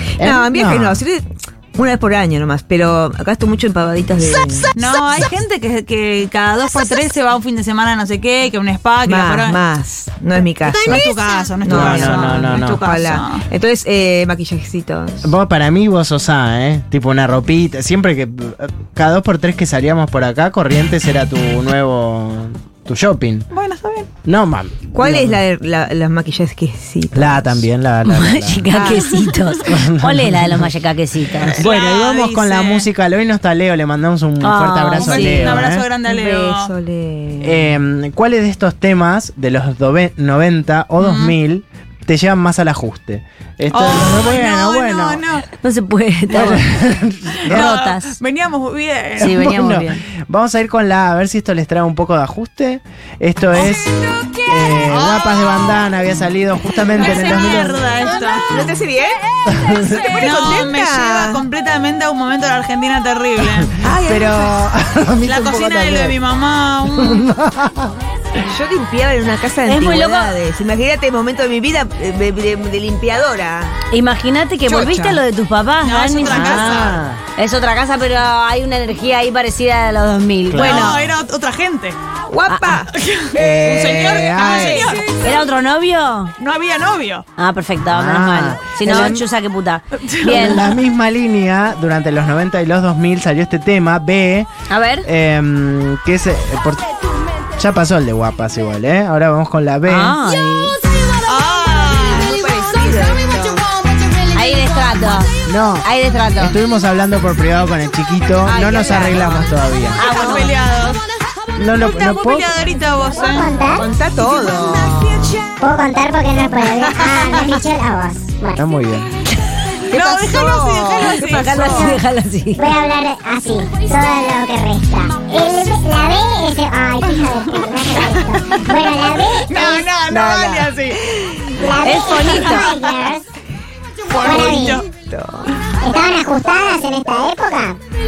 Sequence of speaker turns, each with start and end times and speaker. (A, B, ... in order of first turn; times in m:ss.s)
0:00.2-0:01.0 A
0:00.2-0:04.7 B
0:04.7-0:09.6 C
0:09.0-0:11.0 B
0:10.7-0:13.4 C
0:11.6-0:15.3 B
0:11.6-0:12.9 A
0:15.2-0:23.5 A
0:23.5-0:24.1 C
0:24.2-0:25.4 A
0:24.9-0:27.6 B
0:27.1-0:28.9 A
0:28.0-0:31.6 D
0:28.7-0:29.3 B
0:29.6-0:30.7 A
0:31.5-0:32.9 C
0:31.5-0:35.8 A
0:34.4-0:35.7 D
0:35.0-0:36.7 C
0:36.0-0:37.7 B
0:37.4-0:45.2 A
0:41.0-0:41.4 C
0:43.7-0:45.5 C
0:45.5-0:46.8 D
0:46.3-0:47.7 A
0:47.4-0:48.2 D
0:47.4-0:49.5 C
0:49.2-0:50.0 D
0:49.2-0:53.9 A
0:53.5-0:55.8 C
0:54.4-0:58.1 A
0:56.9-0:58.5 C
0:58.4-0:59.2 B
0:59.5-1:00.3 A
0:59.6-1:03.7 C
1:00.1-1:01.4 B
1:03.4-1:06.2 A
1:03.8-1:04.6 B
1:05.2-1:07.2 C
1:06.9-1:08.0 A
1:08.5-1:13.8 B
1:09.6-1:10.3 D
1:13.9-1:20.9 D
1:14.7-1:15.2 B
1:15.8-1:17.0 C
1:16.2-1:17.2 A
1:20.5-1:21.2 A
1:20.5-1:22.0 C
1:22.3-1:25.1 B
1:22.5-1:22.8 D
1:22.9-1:25.4 C
1:23.3-1:25.0 A
1:25.2-1:26.3 D
1:26.4-1:27.2 C
1:27.4-1:30.7 D
1:27.9-1:29.3 A
1:30.0-1:30.7 C
1:30.2-1:34.5 A
1:34.7-1:35.1 D
1:35.0-1:36.9 A
1:37.5-1:40.2 A
1:39.8-1:40.8 D
1:41.2-1:42.4 C
1:41.9-1:43.7 B
1:44.3-1:46.6 D
1:45.4-1:50.0 A
1:48.4-1:50.5 B
1:49.9-1:50.5 D
1:50.0-1:51.0 C
1:51.6-1:52.5 A
1:51.7-1:53.6 C
1:53.3-1:53.8 E
1:53.7-1:55.4 B
1:55.6-1:58.6 E
1:57.0-1:57.6 C
1:58.6-1:59.1 A
1:59.9-2:01.9 C
1:59.9-2:02.0 B
2:01.0-2:02.8 D
2:02.6-2:09.4 E
2:07.1-2:08.2 C
2:09.4-2:11.0 C
2:09.7-2:12.5 B
2:10.3-2:10.7 D
2:11.6-2:13.2 E
2:11.8-2:12.9 D
2:12.3-2:13.0 C
2:14.1-2:14.8 C
2:14.2-2:14.8 E
2:14.6-2:15.5 B
2:15.8-2:17.8 E